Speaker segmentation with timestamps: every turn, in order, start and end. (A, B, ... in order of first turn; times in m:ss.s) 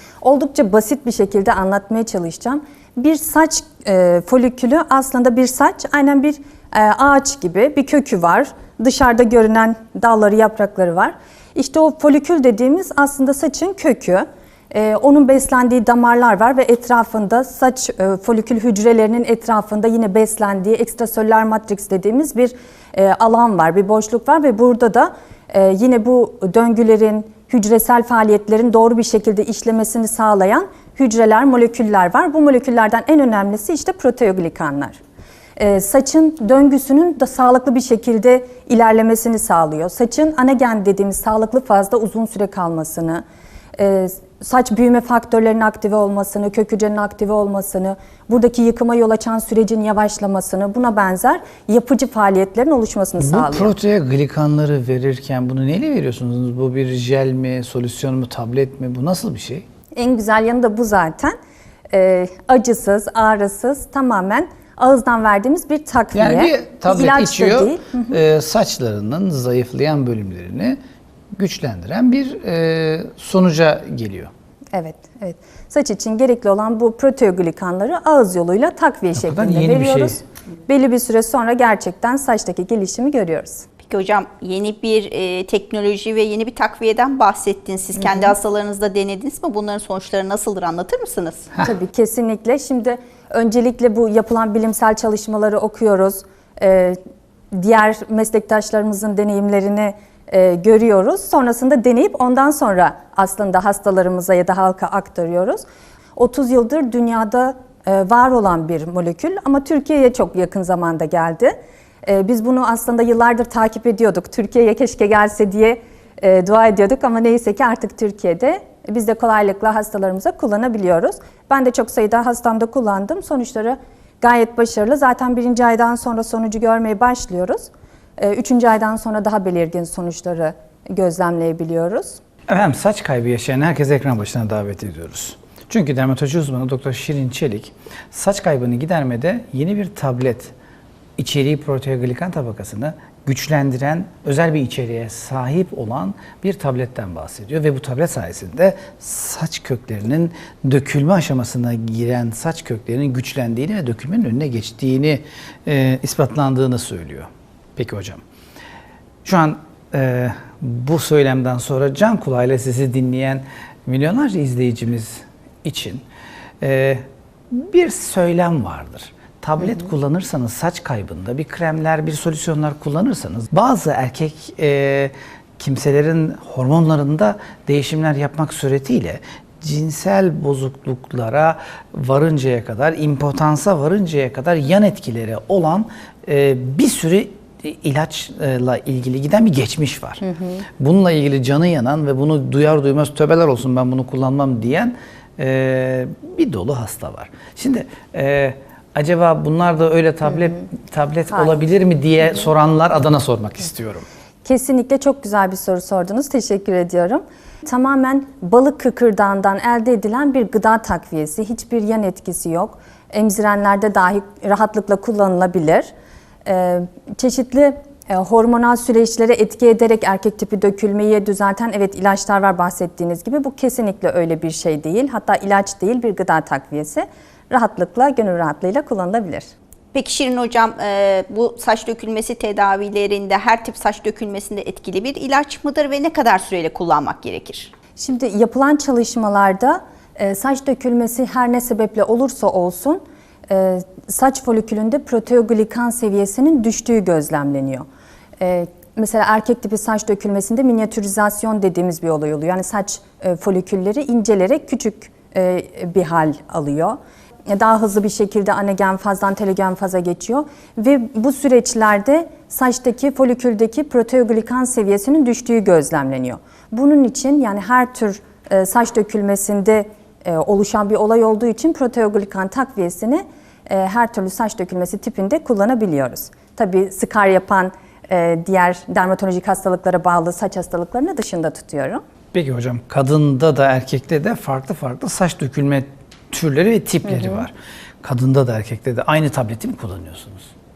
0:00.2-0:35.0 A
0:35.6-0:43.2 A
0:43.8-0:53.7 A
0:53.2-0:59.6 B
1:00.0-1:01.4 A
1:01.9-1:08.2 A
1:06.1-1:10.8 B
1:11.4-1:14.3 B
1:14.7-1:23.7 A
1:19.2-1:20.2 B
1:23.9-1:31.5 C
1:28.1-1:28.3 A
1:31.6-1:37.0 A
1:37.5-1:45.6 A
1:46.2-2:12.2 A
2:12.5-2:20.5 B
2:21.2-2:38.2 B
2:39.2-2:46.0 B
2:46.6-3:10.3 B
3:10.4-3:10.6 A
3:10.8-3:24.1 B
3:24.4-3:35.9 A
3:36.4-3:49.5 A
3:49.9-3:57.7 C
3:58.0-4:07.9 A
4:08.4-4:42.0 A
4:42.3-4:50.5 B